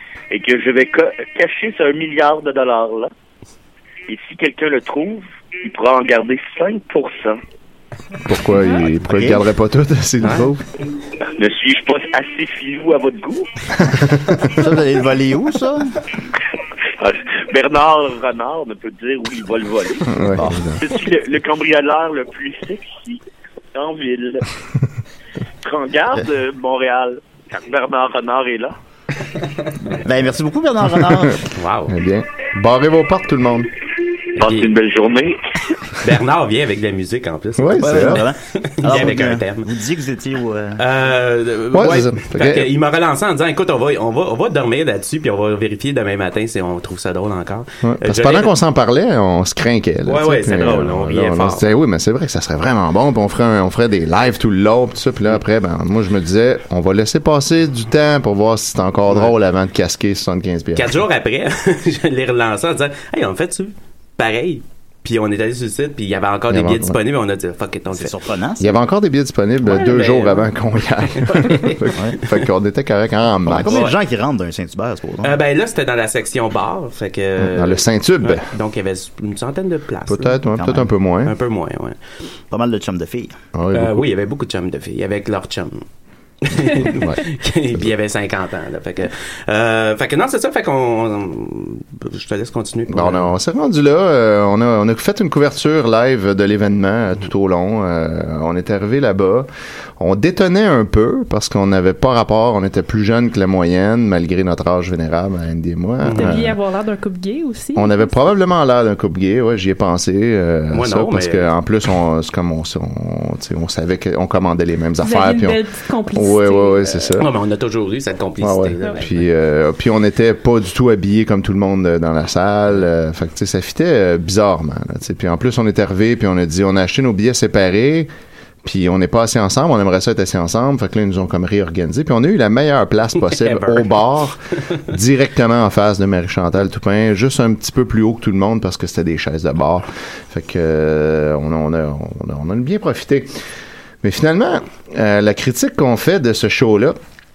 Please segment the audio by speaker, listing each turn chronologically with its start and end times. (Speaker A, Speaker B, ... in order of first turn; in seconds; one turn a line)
Speaker A: 0.3-3.1
Speaker A: 4.1-7.4
Speaker B: 8.2-10.7
Speaker C: 9.1-9.4
Speaker D: 10.2-10.5
Speaker A: 11.4-13.5
Speaker C: 14.5-15.9
Speaker A: 17.0-20.2
Speaker B: 20.1-20.8
Speaker C: 20.3-20.8
Speaker A: 20.8-23.2
Speaker A: 23.7-24.4
Speaker A: 25.6-28.7
Speaker C: 29.9-31.4
Speaker D: 31.6-31.9
Speaker B: 31.9-33.7
Speaker A: 34.4-35.4
Speaker D: 34.4-34.7
Speaker D: 36.0-39.7
Speaker B: 37.6-38.3
Speaker C: 37.8-40.8
Speaker D: 40.8-48.5
Speaker B: 41.7-42.7
Speaker B: 47.8-61.0
Speaker D: 50.1-51.6
Speaker D: 60.8-68.2
Speaker B: 66.5-67.0
Speaker C: 67.9-68.7
Speaker B: 68.6-73.9
Speaker D: 69.7-70.5
Speaker D: 71.2-72.3
Speaker C: 73.5-75.3
Speaker D: 73.6-73.9
Speaker D: 75.2-80.4
Speaker B: 77.4-78.5
Speaker B: 80.1-81.3
Speaker C: 80.6-80.9
Speaker D: 81.2-82.0
Speaker C: 82.5-83.3
Speaker B: 83.5-84.1
Speaker D: 83.7-85.8
Speaker D: 86.4-93.3
Speaker B: 86.8-87.2
Speaker B: 92.9-99.5
Speaker B: 100.0-106.6
Speaker D: 106.0-106.4
Speaker E: 106.1-108.1
Speaker B: 107.8-117.3
Speaker D: 110.7-111.5
Speaker E: 115.0-117.1
Speaker D: 117.2-119.2
Speaker B: 118.4-128.1
Speaker B: 128.6-143.3
Speaker D: 133.2-134.1
Speaker B: 144.0-147.0